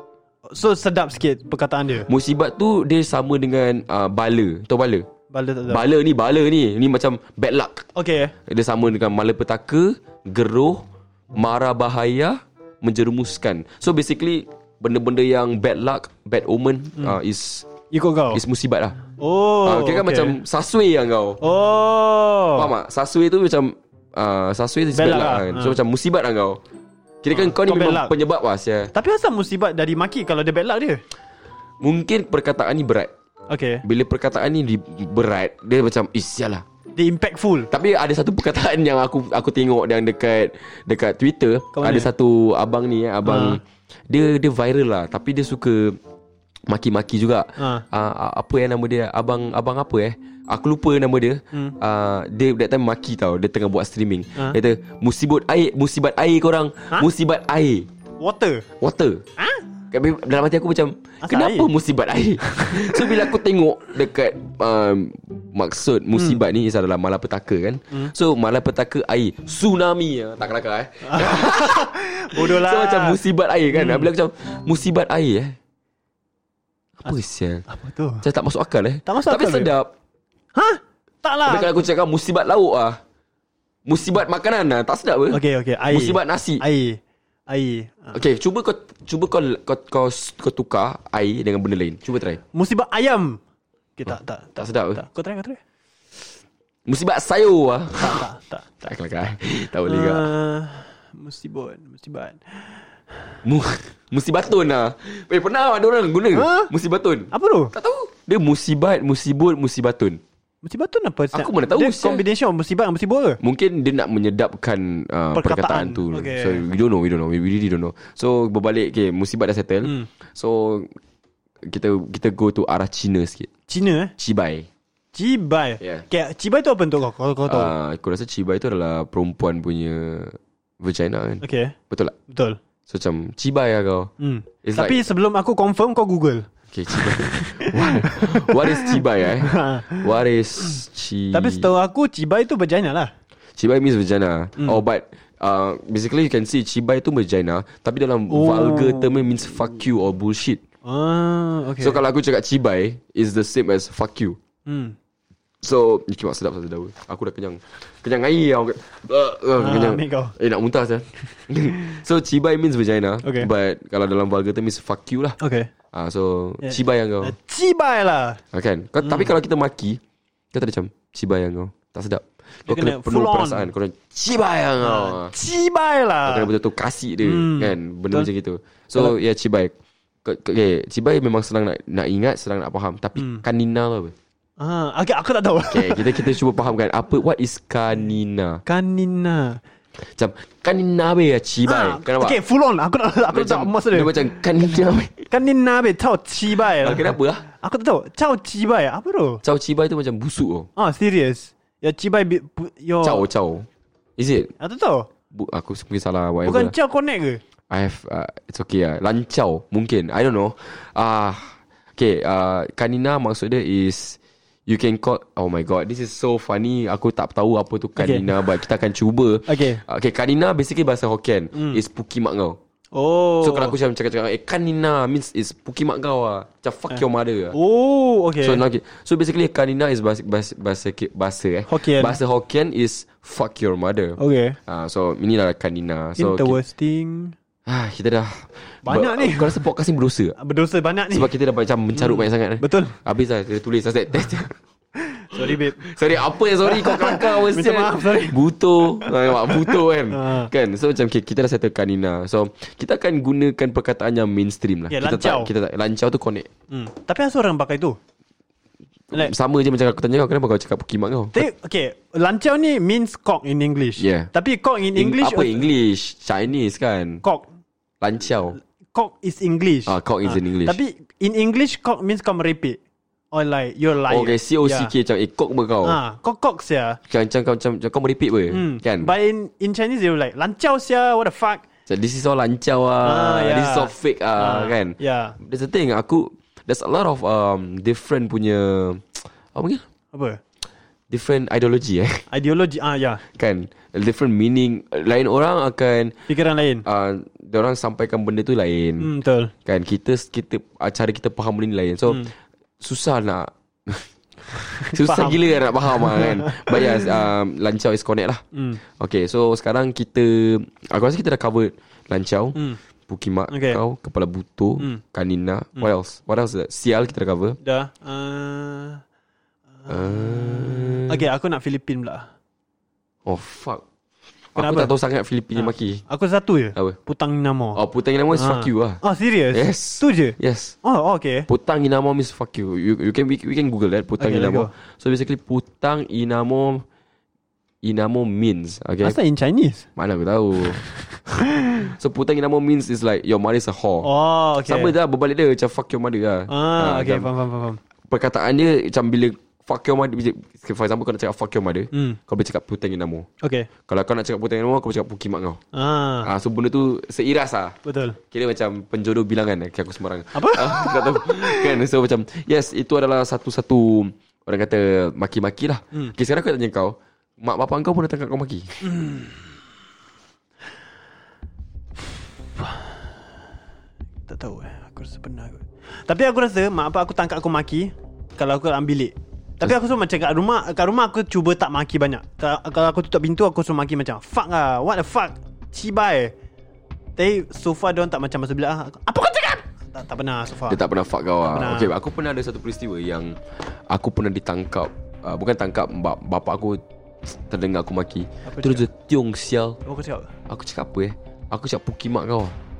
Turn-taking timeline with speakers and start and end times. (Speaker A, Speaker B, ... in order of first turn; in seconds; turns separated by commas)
Speaker A: 0.5-2.1, Speaker B: 2.0-5.0, Speaker A: 5.3-5.8, Speaker B: 5.7-7.9, Speaker A: 7.9-8.3, Speaker B: 8.4-17.7, Speaker A: 17.9-18.4, Speaker B: 18.3-19.0, Speaker A: 19.2-20.4, Speaker B: 19.6-21.4, Speaker A: 21.4-22.7, Speaker B: 22.5-26.6, Speaker A: 24.9-25.8, Speaker B: 27.2-28.9, Speaker A: 27.3-28.1, Speaker A: 28.9-31.0, Speaker B: 31.8-33.1, Speaker A: 33.5-33.8, Speaker B: 33.8-36.6, Speaker A: 37.0-37.7, Speaker B: 37.7-46.0, Speaker A: 41.7-42.1, Speaker A: 43.2-43.6, Speaker B: 46.7-57.9, Speaker A: 47.6-47.8, Speaker A: 58.2-58.6, Speaker B: 58.8-59.2, Speaker A: 59.4-59.6, Speaker B: 59.9-75.5, Speaker A: 61.2-61.7, Speaker A: 62.4-63.1, Speaker A: 71.0-73.2, Speaker A: 73.7-74.1, Speaker B: 77.0-77.6, Speaker A: 77.7-78.2, Speaker B: 78.2-79.9, Speaker A: 79.0-79.7, Speaker A: 80.5-81.8, Speaker B: 81.4-83.0, Speaker B: 83.9-86.6, Speaker A: 85.3-88.2, Speaker B: 88.1-92.4, Speaker A: 92.5-93.4, Speaker A: 94.0-95.6, Speaker B: 94.6-95.0, Speaker B: 96.9-98.2, Speaker A: 98.0-98.7, Speaker B: 98.8-100.3, Speaker A: 99.9-103.4, Speaker B: 103.4-110.2, Speaker A: 106.3-106.7, Speaker A: 107.3-107.7, Speaker A: 110.6-113.4, Speaker B: 111.3-112.2, Speaker B: 113.4-120.9, Speaker A: 115.3-116.6, Speaker A: 119.8-120.1, Speaker B: 121.6-123.5, Speaker A: 123.7-124.1, Speaker B: 124.2-124.7, Speaker A: 125.1-127.7, Speaker B: 125.8-126.0, Speaker B: 127.5-132.2, Speaker A: 131.4-131.8, Speaker A: 132.3-132.6, Speaker B: 132.9-134.1, Speaker A: 134.2-140.1, Speaker B: 134.6-135.0, Speaker B: 136.7-141.7, Speaker A: 141.3-143.1, Speaker B: 143.6-150.6, Speaker A: 148.3-149.2, Speaker A: 150.8-152.0, Speaker B: 151.8-154.4, Speaker A: 154.7-154.9, Speaker B: 155.6-165.4, Speaker A: 159.6-160.3, Speaker A: 163.2-163.5, Speaker A: 165.4-165.7, Speaker B: 165.9-167.3, Speaker A: 166.6-168.4, Speaker B: 168.5-170.0, Speaker A: 169.0-169.3, Speaker B: 170.5-175.3, Speaker A: 172.7-173.7, Speaker A: 174.8-176.5, Speaker B: 176.2-184.1, Speaker A: 177.2-178.3, Speaker A: 183.2-183.4, Speaker A: 184.6-186.3, Speaker B: 185.7-188.6, Speaker A: 188.7-189.6, Speaker B: 190.0-192.4, Speaker A: 191.7-194.2, Speaker B: 193.3-195.3, Speaker A: 195.3-199.4, Speaker B: 196.7-197.4, Speaker B: 199.4-200.7, Speaker A: 200.8-203.2, Speaker B: 203.0-204.5, Speaker A: 204.6-205.1, Speaker B: 205.3-206.7, Speaker A: 206.4-207.4, Speaker B: 207.7-222.6, Speaker A: 218.0-218.4, Speaker A: 219.5-219.8, Speaker A: 221.5-221.8, Speaker A: 222.9-223.8, Speaker B: 223.4-227.6, Speaker A: 227.5-228.6, Speaker B: 228.4-236.6, Speaker A: 231.7-232.2, Speaker A: 234.2-234.6, Speaker A: 236.2-237.3, Speaker B: 237.7-240.4, Speaker A: 238.8-239.6, Speaker A: 240.4-241.3, Speaker B: 241.1-244.6, Speaker A: 241.9-243.0, Speaker A: 245.1-245.9, Speaker B: 245.4-256.5, Speaker A: 246.6-250.5, Speaker A: 254.9-255.5, Speaker A: 256.7-258.0, Speaker B: 259.1-261.5, Speaker A: 261.3-265.7, Speaker B: 264.0-264.3, Speaker B: 264.9-267.2, Speaker B: 268.0-268.6, Speaker A: 268.9-272.8, Speaker B: 269.9-270.8, Speaker A: 273.3-274.9, Speaker B: 274.1-276.0, Speaker A: 275.8-277.0, Speaker B: 277.1-279.1, Speaker A: 278.5-281.6, Speaker B: 281.9-289.8, Speaker A: 283.0-285.4, Speaker A: 290.1-290.4, Speaker B: 291.1-292.3, Speaker A: 292.3-293.2, Speaker B: 293.2-296.2, Speaker A: 296.3-296.8, Speaker B: 296.8-299.1, Speaker A: 299.0-299.5, Speaker B: 299.6-302.3, Speaker B: 302.8-317.6, Speaker A: 304.6-307.1, Speaker A: 308.5-308.8, Speaker A: 313.5-313.8, Speaker A: 317.6-319.0, Speaker A: 319.8-322.3, Speaker B: 319.9-321.3, Speaker B: 323.2-323.8, Speaker B: 324.5-326.0, Speaker A: 324.6-324.9, Speaker A: 325.6-327.8, Speaker B: 327.7-329.0, Speaker A: 328.3-331.5, Speaker B: 329.5-330.8, Speaker B: 331.5-336.8, Speaker A: 334.2-334.7, Speaker B: 337.8-339.2, Speaker A: 339.0-339.9, Speaker B: 339.9-340.8, Speaker A: 340.8-341.9, Speaker B: 341.8-344.1, Speaker A: 344.0-344.9, Speaker B: 344.6-347.3, Speaker A: 346.5-347.8, Speaker B: 348.1-353.3, Speaker A: 351.9-352.2, Speaker A: 353.4-353.7, Speaker B: 353.9-355.6, Speaker A: 355.7-356.3, Speaker B: 356.2-357.8, Speaker A: 357.8-358.2, Speaker B: 358.3-368.8, Speaker A: 360.3-361.8, Speaker A: 368.8-369.5, Speaker A: 372.6-373.1, Speaker A: 374.3-386.3, Speaker A: 387.2-390.8, Speaker B: 390.7-399.8, Speaker A: 391.5-391.9, Speaker A: 398.4-398.9, Speaker A: 399.8-400.3, Speaker B: 400.5-402.6